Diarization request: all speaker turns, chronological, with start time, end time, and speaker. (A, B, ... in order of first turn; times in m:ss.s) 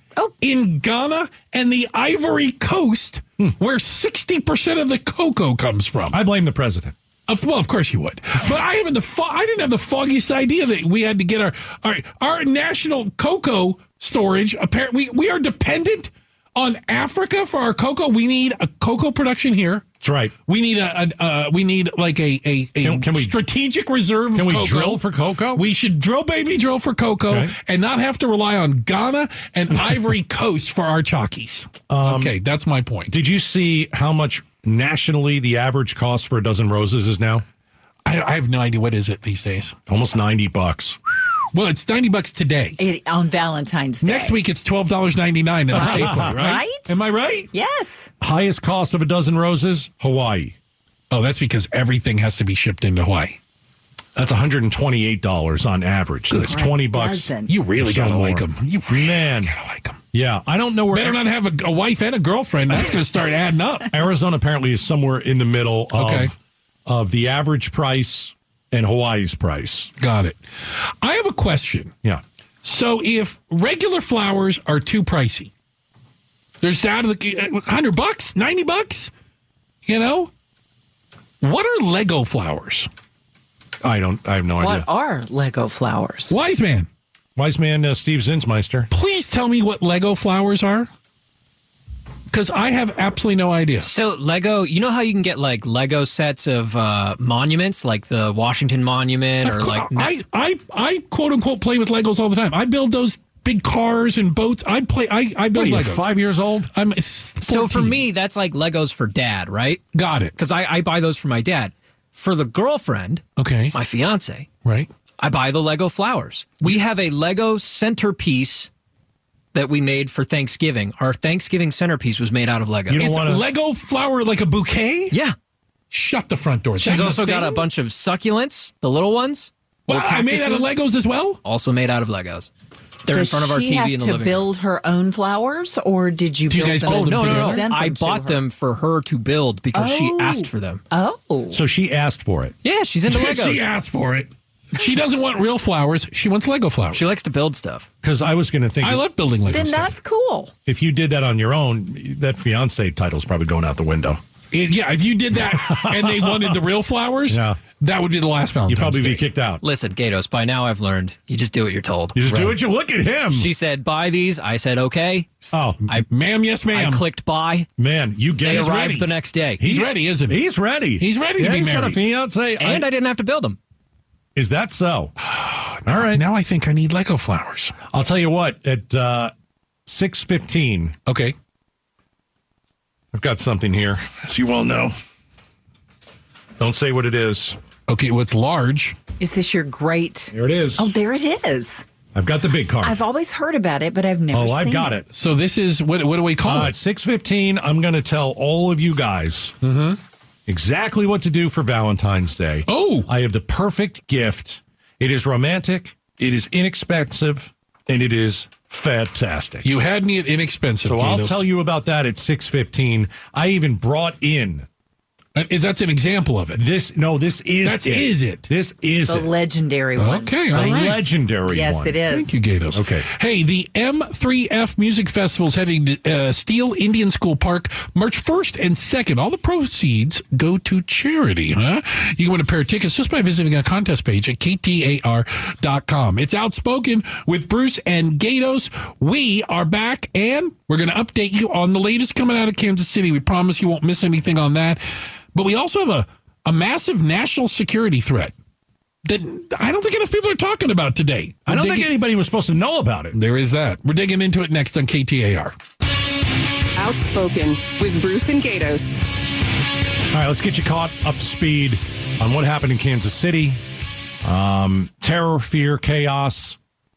0:00.4-0:06.2 A
0:06.1-0:06.9 B
0:07.3-0:19.8 A
0:20.0-0:20.3 B
0:20.4-0:25.0 A
0:22.8-0:23.4 B
0:24.3-0:25.6 B
0:25.5-0:33.1 A
0:27.3-0:27.5 B
0:31.9-0:32.4 B
0:33.1-0:37.4 B
0:38.0-0:39.8 A
0:39.9-0:41.0 B
0:41.5-0:42.8 A
0:42.8-0:44.4 C
0:44.0-0:47.5 A
0:45.7-0:46.4 B
0:45.7-0:47.0 C
0:47.5-0:48.1 C
0:48.2-0:50.5 B
0:51.1-0:53.4 A
0:54.2-0:59.5 B
0:56.3-0:56.6 A
0:56.4-0:57.5 C
0:57.5-1:00.0 A
1:00.1-1:01.2 B
1:00.9-1:03.9 A
1:03.9-1:06.3 B
1:05.9-1:06.3 A
1:06.8-1:09.9 B
1:10.0-1:11.9 A
1:12.6-1:15.5 A
1:16.6-1:19.1 A
1:19.8-1:20.3 A
1:21.4-1:22.9 A
1:23.8-1:24.9 B
1:24.6-1:26.4 C
1:26.3-1:26.9 A
1:27.4-1:28.9 B
1:28.9-1:30.9 A
1:32.3-1:33.9 A
1:33.8-1:40.1 D
1:39.4-1:46.1 A
1:45.5-1:46.7 B
1:46.7-1:48.0 A
1:47.4-1:49.8 D
1:49.9-1:50.3 A
1:50.4-1:54.5 D
1:53.4-1:53.8 A
1:54.6-1:54.9 A
1:55.2-1:58.7 D
1:59.5-2:03.0 D
2:02.9-2:03.4 B
2:02.9-2:05.2 A
2:05.9-2:07.6 A
2:06.8-2:10.7 D
2:06.8-2:07.3 B
2:09.9-2:11.4 A
2:11.4-2:12.5 D
2:13.0-2:14.4 D
2:13.1-2:18.4 C
2:16.5-2:17.7 A
2:16.8-2:20.8 D
2:19.7-2:21.6 C
2:21.5-2:22.5 B
2:22.6-2:23.7 D
2:23.0-2:27.0 A
2:26.9-2:27.9 D
2:28.0-2:29.0 B
2:28.8-2:29.9 A
2:29.5-2:30.5 C
2:30.6-2:34.2 B
2:34.5-2:39.3 A
2:35.3-2:36.6 B
2:37.3-2:37.6 B
2:38.7-2:39.6 B
2:39.6-2:42.2 D
2:42.1-2:43.5 B
2:42.3-2:42.5 A
2:43.3-2:46.0 D
2:45.5-2:45.8 B
2:45.9-2:47.0 A
2:46.7-2:47.7 D
2:47.8-2:48.7 B
2:48.4-2:49.6 D
2:48.4-2:50.4 A
2:49.6-2:52.8 B
2:51.0-2:52.0 A
2:52.6-2:53.6 D
2:54.3-2:55.1 B
2:55.7-2:57.8 A
2:55.8-2:56.2 B
2:57.9-2:59.3 B
2:59.8-3:00.9 B
3:01.0-3:01.3 A
3:03.1-3:04.9 B
3:06.6-3:07.6 B
3:07.9-3:09.0 A
3:09.2-3:11.8 C
3:10.3-3:10.9 B
3:12.1-3:13.0 B
3:12.8-3:14.9 C
3:14.3-3:15.1 B
3:15.1-3:16.7 A
3:16.4-3:19.5 B
3:19.6-3:20.0 A
3:20.5-3:29.6 B
3:22.7-3:23.1 A
3:29.6-3:31.4 A
3:30.8-3:34.7 B
3:35.3-3:36.6 A
3:36.5-3:39.3 B
3:37.6-3:38.5 A
3:39.1-3:42.4 C
3:40.0-3:41.0 A
3:40.5-3:42.0 B
3:42.1-4:08.3 A
3:42.7-3:43.1 B
4:09.0-4:11.9 A
4:11.5-4:13.2 B
4:13.1-4:15.5 A
4:16.8-4:19.0 E
4:20.1-4:23.6 B
4:24.2-4:26.6 B